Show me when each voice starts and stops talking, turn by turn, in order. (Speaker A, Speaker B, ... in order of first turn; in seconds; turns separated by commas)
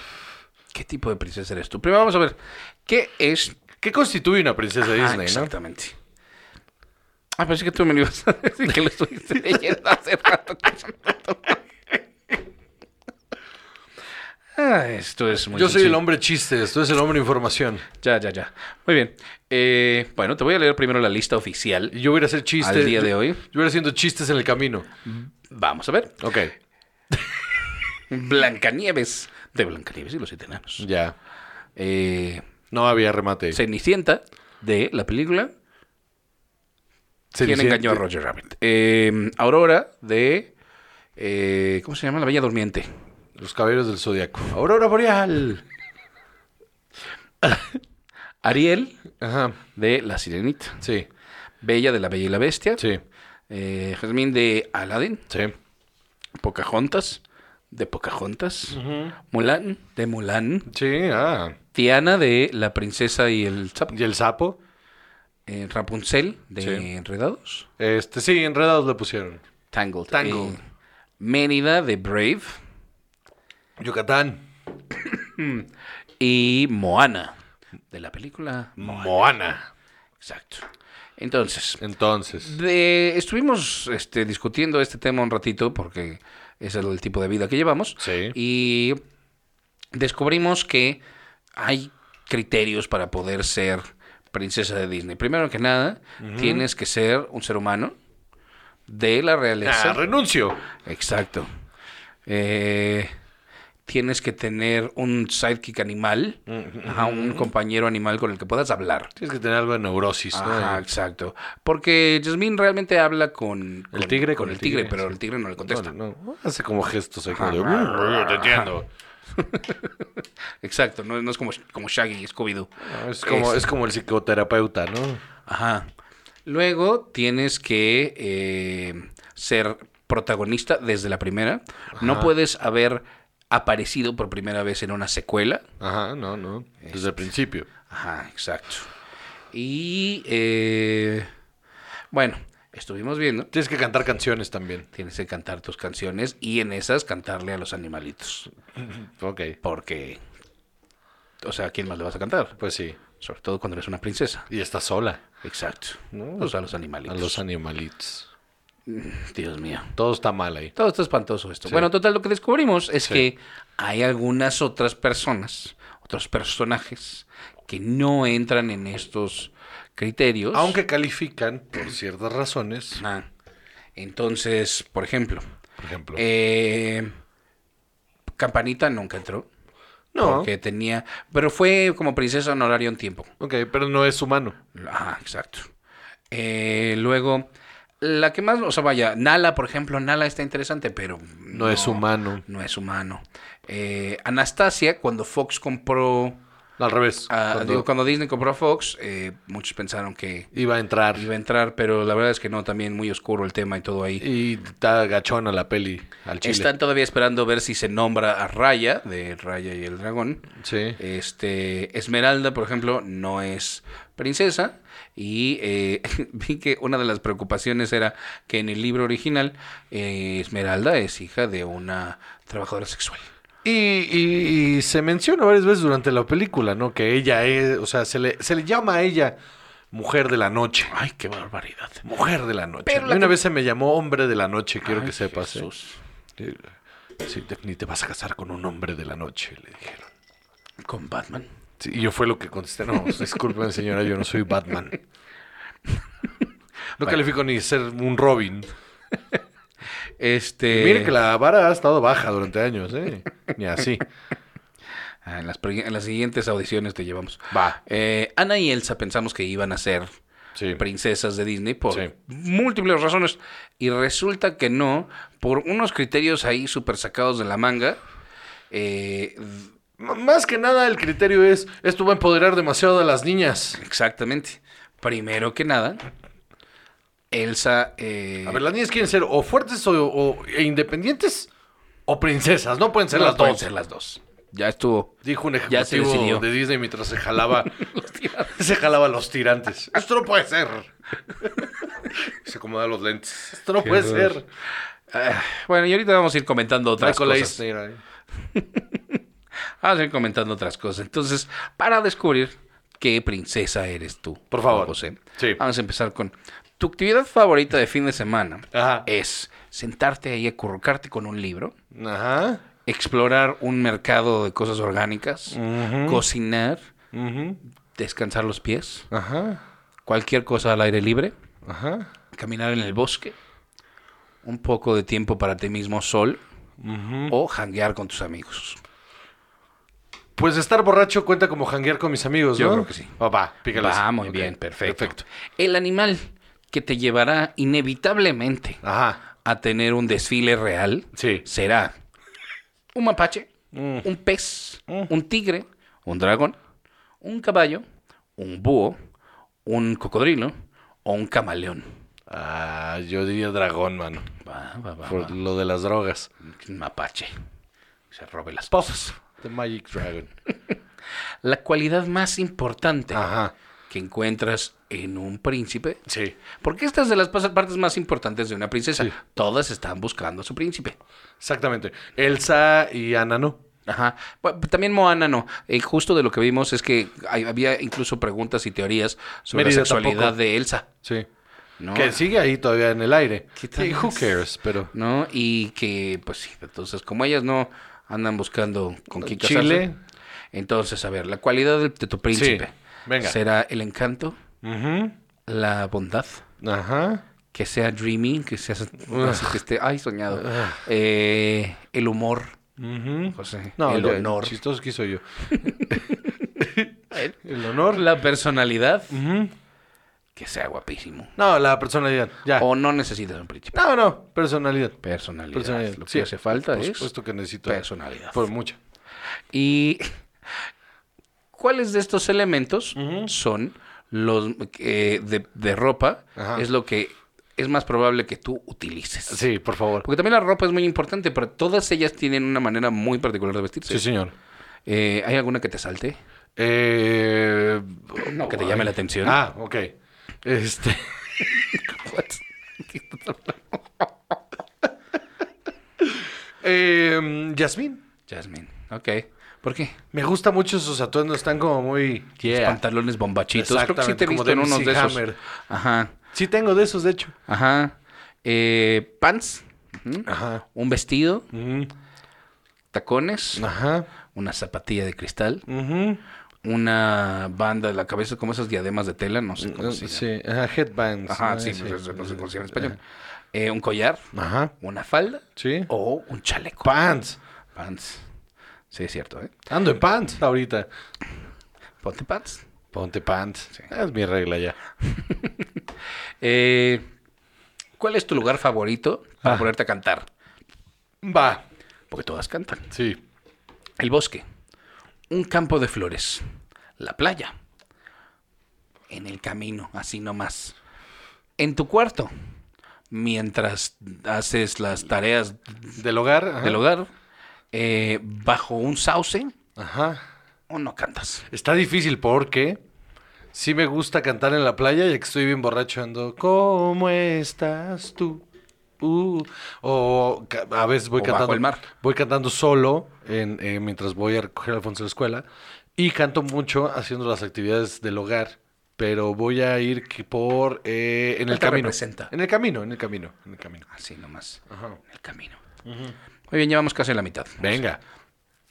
Speaker A: 0.7-3.6, Speaker B: 3.8-5.5, Speaker A: 4.9-6.0, Speaker A: 7.4-11.6, Speaker A: 14.6-16.0, Speaker B: 15.5-17.8, Speaker A: 18.0-21.9, Speaker B: 21.9-24.9, Speaker A: 22.6-23.4, Speaker A: 25.1-26.2, Speaker B: 26.2-26.6, Speaker A: 28.1-30.9, Speaker B: 30.8-31.1, Speaker A: 31.8-32.5, Speaker B: 32.7-33.6, Speaker A: 33.5-35.5, Speaker B: 37.3-38.0, Speaker A: 37.4-40.5, Speaker A: 41.2-42.9, Speaker B: 43.4-45.6, Speaker A: 48.4-49.0, Speaker B: 49.2-49.6, Speaker A: 49.8-50.8, Speaker B: 50.8-51.1, Speaker A: 51.6-52.9, Speaker A: 53.5-55.2, Speaker A: 56.4-60.7, Speaker B: 58.7-59.2, Speaker B: 60.7-61.6, Speaker A: 61.7-64.0, Speaker B: 63.9-64.6, Speaker A: 65.5-67.7, Speaker B: 66.6-66.9, Speaker B: 67.8-69.4, Speaker A: 69.7-70.6, Speaker B: 70.1-70.6, Speaker A: 71.2-72.6, Speaker B: 73.8-74.5, Speaker A: 75.4-75.7, Speaker A: 76.2-77.4, Speaker A: 77.9-79.2, Speaker B: 78.8-79.7, Speaker A: 80.2-80.7, Speaker A: 81.2-81.8, Speaker B: 81.8-82.5, Speaker A: 82.4-89.0, Speaker B: 88.0-88.4, Speaker A: 89.9-91.0, Speaker A: 91.6-97.9, Speaker B: 96.2-96.7, Speaker A: 98.9-100.0, Speaker B: 99.6-100.6, Speaker A: 100.8-101.5, Speaker A: 102.3-103.1, Speaker A: 103.9-109.1, Speaker B: 106.5-107.5, Speaker B: 109.2-110.8, Speaker A: 110.3-115.9, Speaker B: 113.9-118.9, Speaker A: 117.3-118.7, Speaker A: 119.3-120.0, Speaker A: 120.6-122.7, Speaker B: 122.8-125.2, Speaker A: 123.2-123.7, Speaker A: 125.5-125.9, Speaker A: 126.5-135.6, Speaker B: 132.0-132.3, Speaker B: 135.8-137.7, Speaker A: 136.8-137.3, Speaker A: 137.9-138.9, Speaker A: 139.5-141.3, Speaker A: 142.1-143.5, Speaker B: 143.5-144.9, Speaker A: 144.9-148.5, Speaker B: 148.8-149.6, Speaker A: 149.6-150.2, Speaker A: 151.4-152.6, Speaker B: 152.6-153.0, Speaker A: 153.2-154.5, Speaker B: 154.5-155.2, Speaker A: 155.4-157.4, Speaker B: 156.1-158.3, Speaker A: 158.9-159.9, Speaker B: 160.0-160.7, Speaker A: 160.8-170.8, Speaker B: 170.5-173.0, Speaker A: 173.0-173.3, Speaker A: 174.0-175.5, Speaker B: 175.8-176.2, Speaker A: 176.2-177.1, Speaker A: 178.4-179.5, Speaker B: 180.1-180.5, Speaker A: 180.2-183.3, Speaker B: 183.4-184.6, Speaker A: 184.7-185.7, Speaker A: 186.3-187.5, Speaker A: 188.0-196.4, Speaker B: 191.5-192.4, Speaker B: 196.8-197.9, Speaker A: 197.3-200.5, Speaker B: 200.5-201.3, Speaker A: 201.1-204.3, Speaker B: 204.2-206.7, Speaker A: 206.4-223.3, Speaker B: 210.6-211.0, Speaker B: 223.6-229.4, Speaker B: 229.9-230.9, Speaker A: 230.9-232.0, Speaker B: 232.1-235.7, Speaker A: 232.9-233.4, Speaker A: 234.8-236.0, Speaker B: 236.4-236.7, Speaker B: 237.2-240.1, Speaker A: 240.8-241.5, Speaker B: 241.8-245.0, Speaker B: 247.0-248.7, Speaker A: 250.2-251.1, Speaker B: 250.7-254.1, Speaker A: 255.2-260.1, Speaker B: 257.5-257.8, Speaker B: 260.6-260.8, Speaker A: 260.8-268.0, Speaker A: 268.7-269.7, Speaker B: 270.0-273.8, Speaker A: 273.8-276.0, Speaker A: 277.3-278.6, Speaker B: 278.4-281.5, Speaker B: 282.1-283.7, Speaker A: 283.1-286.5, Speaker B: 285.2-287.8, Speaker A: 287.5-288.6, Speaker B: 288.4-290.9, Speaker B: 292.3-294.5, Speaker A: 293.8-294.4, Speaker A: 295.1-297.6, Speaker B: 297.0-298.0, Speaker A: 298.5-299.1, Speaker A: 299.8-311.7, Speaker B: 304.5-305.6, Speaker B: 308.7-309.1, Speaker B: 311.9-312.6, Speaker A: 312.9-316.8, Speaker B: 315.5-316.2, Speaker B: 317.1-317.6, Speaker A: 317.9-319.1, Speaker B: 319.1-319.6, Speaker A: 320.1-321.4, Speaker B: 321.6-322.1, Speaker A: 322.3-323.4, Speaker A: 324.4-326.4, Speaker B: 326.8-327.4, Speaker A: 327.3-328.8, Speaker B: 330.4-335.2, Speaker A: 332.6-333.2, Speaker A: 333.7-338.8, Speaker B: 338.8-339.2, Speaker A: 339.4-341.9, Speaker B: 341.1-341.5, Speaker A: 342.9-343.5, Speaker B: 343.7-344.1, Speaker A: 344.0-346.6, Speaker A: 347.2-347.9, Speaker A: 348.4-349.0, Speaker A: 349.6-350.5, Speaker A: 351.1-351.9, Speaker B: 352.3-354.3, Speaker A: 354.4-355.4, Speaker B: 355.1-356.3, Speaker A: 356.4-357.3, Speaker A: 358.1-359.2, Speaker B: 358.7-360.3, Speaker A: 361.4-363.3, Speaker B: 363.1-363.5, Speaker A: 363.9-366.0, Speaker B: 366.1-366.4, Speaker A: 366.6-371.0, Speaker B: 371.4-373.6, Speaker A: 373.9-380.9, Speaker B: 379.5-380.4, Speaker A: 381.8-382.2, Speaker B: 381.9-384.9, Speaker A: 383.6-384.3, Speaker A: 384.9-389.9, Speaker B: 389.1-390.0, Speaker A: 390.5-394.4, Speaker B: 392.3-393.4, Speaker B: 394.6-395.1, Speaker A: 395.5-396.4, Speaker B: 396.6-397.2, Speaker A: 397.5-402.6, Speaker B: 399.1-399.6, Speaker B: 400.3-400.8, Speaker B: 402.8-408.1, Speaker A: 403.3-404.6, Speaker A: 405.5-406.3, Speaker A: 407.9-409.2, Speaker B: 409.1-409.5, Speaker A: 410.4-411.3, Speaker B: 411.4-412.7, Speaker A: 412.6-413.8, Speaker B: 413.7-415.0, Speaker A: 415.0-417.1, Speaker B: 415.5-418.8, Speaker A: 417.7-418.5, Speaker A: 419.5-420.2, Speaker A: 421.5-429.5, Speaker B: 423.0-423.3, Speaker B: 426.4-426.7, Speaker B: 429.3-430.1, Speaker A: 430.0-434.1, Speaker B: 433.9-434.3, Speaker A: 434.9-436.2, Speaker B: 436.6-439.9, Speaker A: 438.2-439.4, Speaker B: 440.4-441.4, Speaker A: 441.5-444.4, Speaker B: 446.6-448.0, Speaker A: 448.3-450.0, Speaker B: 450.1-452.8, Speaker A: 452.5-456.2, Speaker B: 453.6-455.4, Speaker B: 456.3-457.3, Speaker A: 457.5-461.5, Speaker B: 460.3-460.6, Speaker B: 461.5-461.9, Speaker A: 462.9-463.7, Speaker B: 463.6-464.1, Speaker A: 464.3-465.6, Speaker B: 465.7-466.2, Speaker A: 466.6-470.3, Speaker B: 469.6-473.0, Speaker A: 471.3-473.0, Speaker A: 473.5-474.3, Speaker B: 474.3-474.7, Speaker A: 474.8-476.9, Speaker B: 475.6-475.9, Speaker B: 476.8-477.4, Speaker A: 477.8-478.3, Speaker A: 478.9-479.6, Speaker B: 479.7-480.9, Speaker A: 482.0-482.6, Speaker B: 482.9-484.8, Speaker A: 485.1-485.6, Speaker A: 486.4-487.1, Speaker A: 488.0-490.3, Speaker B: 491.2-491.6, Speaker A: 492.1-492.9, Speaker B: 492.9-493.2, Speaker A: 494.0-494.4, Speaker A: 495.3-496.4, Speaker A: 497.0-497.5, Speaker A: 499.1-500.8, Speaker A: 501.6-502.3, Speaker A: 503.1-506.0, Speaker B: 506.0-506.8, Speaker A: 506.6-507.1, Speaker A: 507.7-509.5, Speaker B: 509.8-510.2, Speaker A: 510.7-511.5, Speaker B: 511.5-512.8, Speaker B: 513.5-518.4, Speaker B: 519.0-525.5, Speaker A: 521.2-521.9, Speaker B: 526.0-533.9, Speaker A: 531.5-532.3, Speaker A: 533.9-535.6, Speaker B: 534.7-535.0, Speaker B: 535.9-536.1, Speaker A: 536.5-537.8, Speaker B: 537.6-538.0